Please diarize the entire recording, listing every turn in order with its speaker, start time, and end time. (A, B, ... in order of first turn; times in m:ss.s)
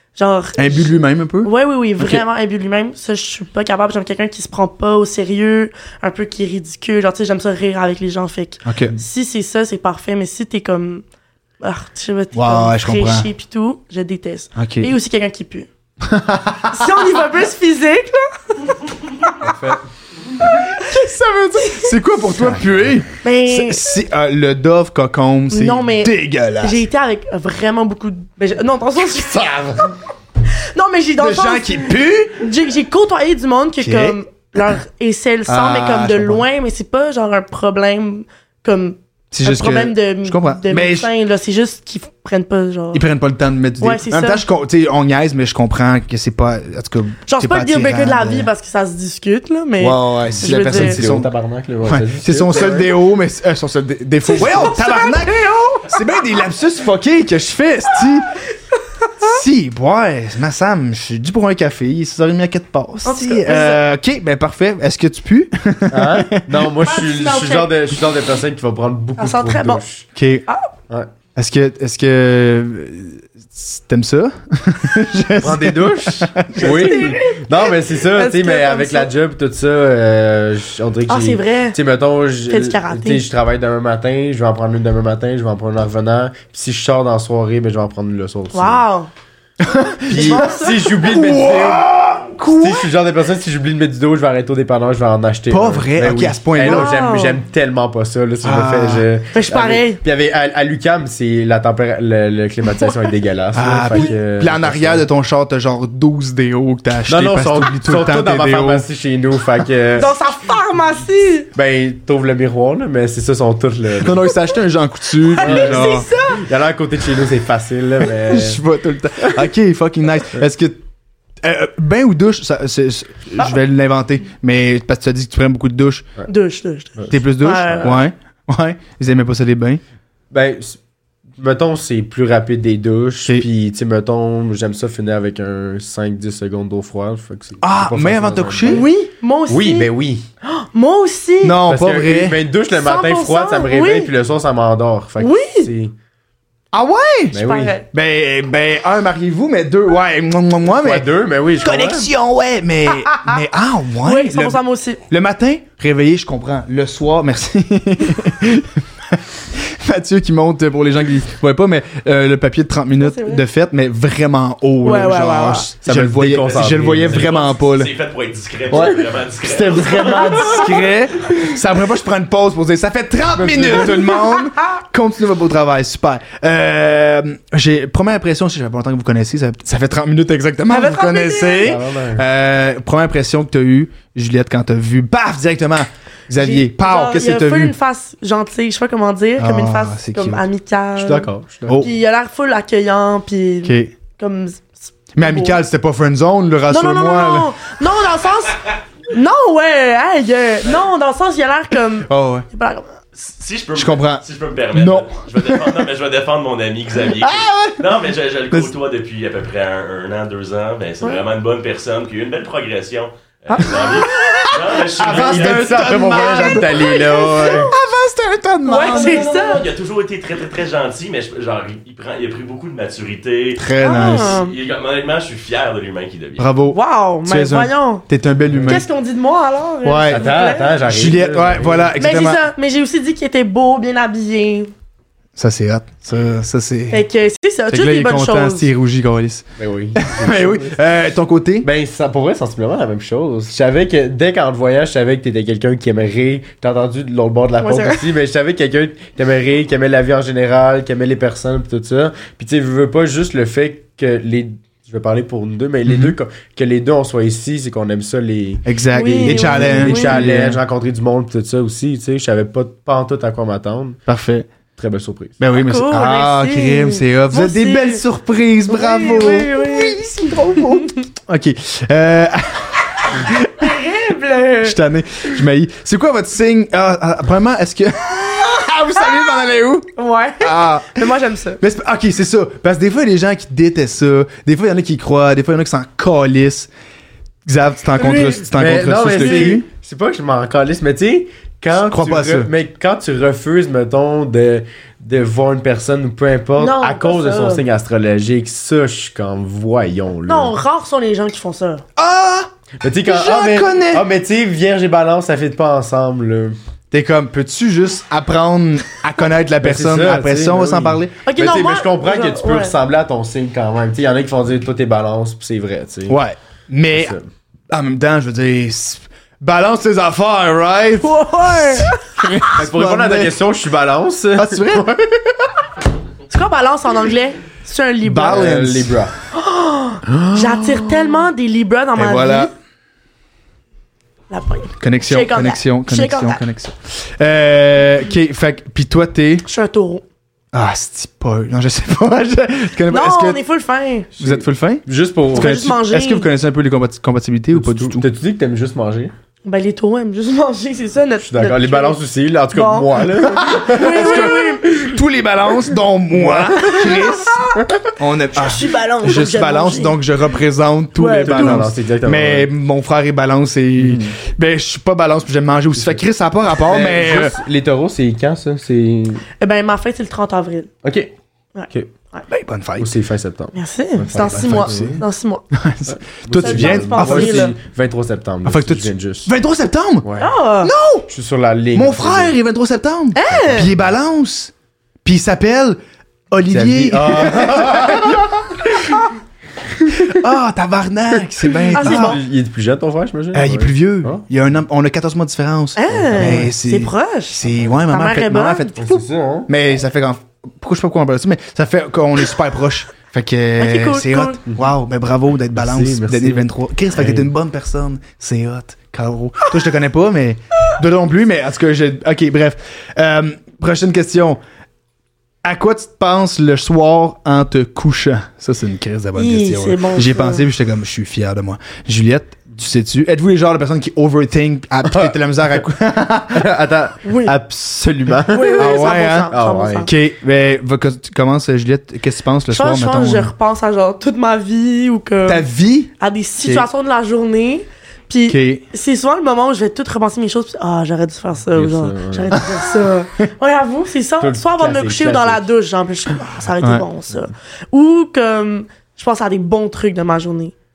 0:00.2-0:11.0 A
0:00.6-0:02.2 B
0:08.6-0:09.0 B
0:11.6-0:15.7 A
0:12.3-0:13.3 B
0:14.6-0:14.9 B
0:16.0-0:17.1 B
0:16.7-0:19.7 A
0:19.4-0:19.8 C
0:20.5-0:20.9 A
0:20.5-0:26.8 B
0:21.6-0:21.9 A
0:23.2-0:23.8 A
0:25.5-0:29.9 A
0:29.4-0:29.9 C
0:30.7-0:43.0 A
0:31.2-0:32.4 B
0:33.8-0:34.2 B
0:35.5-0:36.5 B
0:39.3-0:41.1 B
0:42.9-0:48.5 B
0:43.8-0:44.4 A
0:47.3-0:51.1 A
0:49.8-0:51.3 B
0:50.4-0:52.9 C
0:51.8-0:58.4 B
0:54.2-0:55.9 A
0:59.0-0:59.4 A
0:59.2-1:06.7 B
1:03.0-1:03.8 A
1:05.9-1:10.1 C
1:06.8-1:07.8 A
1:09.2-1:09.8 A
1:10.2-1:10.5 B
1:11.4-1:17.1 B
1:15.4-1:28.8 C
1:16.6-1:19.1 A
1:21.1-1:21.8 A
1:22.5-1:23.3 A
1:28.5-1:29.1 A
1:29.6-1:32.9 B
1:30.0-1:45.0 C
1:30.1-1:30.9 A
1:35.5-1:37.0 B
1:36.6-1:37.4 A
1:38.4-1:39.1 B
1:39.3-1:40.0 A
1:43.6-1:48.9 B
1:47.1-1:50.2 C
1:50.0-1:51.5 A
1:51.6-1:54.3 C
1:54.0-1:56.1 B
1:55.3-1:56.5 A
1:55.4-1:58.6 C
1:58.2-2:00.8 B
2:01.4-2:06.1 B
2:06.3-2:08.0 A
2:07.0-2:08.0 C
2:07.1-2:09.8 B
2:10.3-2:10.8 C
2:11.4-2:18.9 C
2:17.6-2:18.9 B
2:18.7-2:19.9 A
2:19.5-2:20.3 C
2:20.4-2:21.6 A
2:21.4-2:22.4 B
2:21.6-2:25.9 C
2:22.7-2:24.1 A
2:25.2-2:25.7 A
2:26.7-2:31.1 B
2:27.3-2:27.8 C
2:27.3-2:27.9 A
2:30.8-2:32.1 C
2:31.6-2:47.9 B
2:32.9-2:33.4 A
2:34.0-2:35.0 A
2:43.0-2:43.4 A
2:44.8-2:45.7 A
2:45.8-2:47.3 C
2:47.0-2:50.7 D
2:48.7-2:50.7 C
2:48.7-3:07.8 B
2:53.3-2:54.1 C
3:00.7-3:01.7 A
3:01.6-3:02.2 C
3:06.4-3:15.6 A
3:09.4-3:10.5 B
3:11.0-3:11.9 C
3:13.6-3:13.9 B
3:15.2-3:17.5 B
3:16.7-3:23.0 A
3:22.1-3:22.5 B
3:23.1-3:36.1 D
3:23.8-3:25.9 B
3:27.1-3:27.8 B
3:33.5-3:34.6 A
3:34.3-3:39.3 B
3:35.0-3:37.7 C
3:36.7-3:37.7 A
3:38.7-3:39.7 A
3:38.8-3:46.5 D
3:43.6-3:44.4 B
3:43.8-3:44.5 A
3:46.4-3:48.9 B
3:46.7-3:48.1 A
3:48.5-3:48.8 C
3:48.7-3:50.8 A
3:49.8-3:50.3 B
3:49.8-3:51.9 C
3:50.8-3:52.4 B
3:52.0-3:54.7 A
3:55.4-3:57.0 B
3:56.9-3:58.7 A
3:57.7-4:01.7 B
3:59.6-4:00.8 C
4:01.6-4:24.0 C
4:07.6-4:08.0 A
4:15.9-4:16.2 B
4:18.6-4:20.6 B
4:18.9-4:20.3 A
4:24.1-4:24.5 B
4:24.8-4:25.4 C
4:25.4-4:33.7 B
4:25.5-4:28.0 A
4:28.7-4:31.0 A
4:33.6-4:34.8 A
4:34.6-4:46.7 B
4:40.0-4:41.6 A
4:47.5-4:49.7 B
4:48.0-4:48.5 A
4:48.5-5:00.6 C
4:49.1-4:49.6 A
4:51.8-4:52.5 B
4:56.6-4:57.6 A
5:00.3-5:01.8 A
5:02.0-5:02.5 B
5:02.8-5:06.6 C
5:03.0-5:04.1 B
5:06.9-5:11.2 B
5:09.6-5:16.2 C
5:11.2-5:12.8 A
5:16.1-5:17.2 B
5:16.9-5:17.3 C
5:17.7-5:23.4 B
5:21.0-5:22.6 A
5:22.6-5:25.5 C
5:24.4-5:24.9 B
5:26.3-5:28.4 A
5:28.0-5:29.0 B
5:28.3-5:29.1 C
5:29.3-5:32.5 A
5:30.1-5:31.1 B
5:32.0-5:32.5 B
5:34.3-5:36.4 A
5:34.8-5:39.5 B
5:39.5-5:40.0 A
5:40.5-5:43.4 B
5:42.9-5:44.1 A
5:44.2-5:45.6 C
5:44.2-5:48.0 B
5:45.3-5:46.3 A
5:47.5-5:49.1 C
5:49.4-5:52.0 A
5:51.2-5:55.0 C
5:52.5-5:54.7 A
5:53.2-6:07.4 B
5:56.1-5:57.9 C
5:58.4-6:00.0 A
6:01.0-6:01.7 A
6:01.2-6:02.5 C
6:03.8-6:04.2 C
6:05.8-6:06.0 C
6:06.6-6:09.2 C
6:09.4-6:10.7 A
6:10.8-6:11.1 C
6:11.6-6:12.2 A
6:12.3-6:12.9 B
6:12.8-6:15.0 C
6:13.5-6:15.4 A
6:14.2-6:17.5 B
6:15.9-6:19.3 C
6:16.3-6:17.6 A
6:18.4-6:20.1 B
6:20.0-6:20.3 C
6:20.2-6:20.7 A
6:20.6-6:21.1 B
6:21.1-6:22.3 C
6:21.7-6:24.5 B
6:23.1-6:23.7 A
6:23.3-6:23.9 C
6:25.0-6:25.8 B
6:26.3-6:29.0 B
6:26.5-6:28.5 C
6:29.8-6:30.2 C
6:30.0-6:32.2 B
6:31.5-6:34.2 C
6:31.7-6:32.2 A
6:33.3-6:54.4 B
6:35.8-6:38.7 A
6:35.9-6:36.5 C
6:38.8-6:39.5 C
6:43.6-6:44.4 A
6:45.6-6:47.3 C
6:55.4-7:06.5 B
6:59.2-7:00.4 A
7:04.8-7:05.1 C
7:06.3-7:09.9 C
7:07.0-7:07.3 A
7:08.3-7:09.9 A
7:08.6-7:13.3 B
7:12.5-7:15.4 A
7:15.2-7:15.9 B
7:16.0-7:30.5 A
7:18.3-7:18.6 B
7:21.6-7:22.4 C
7:24.2-7:25.4 C
7:26.6-7:26.9 B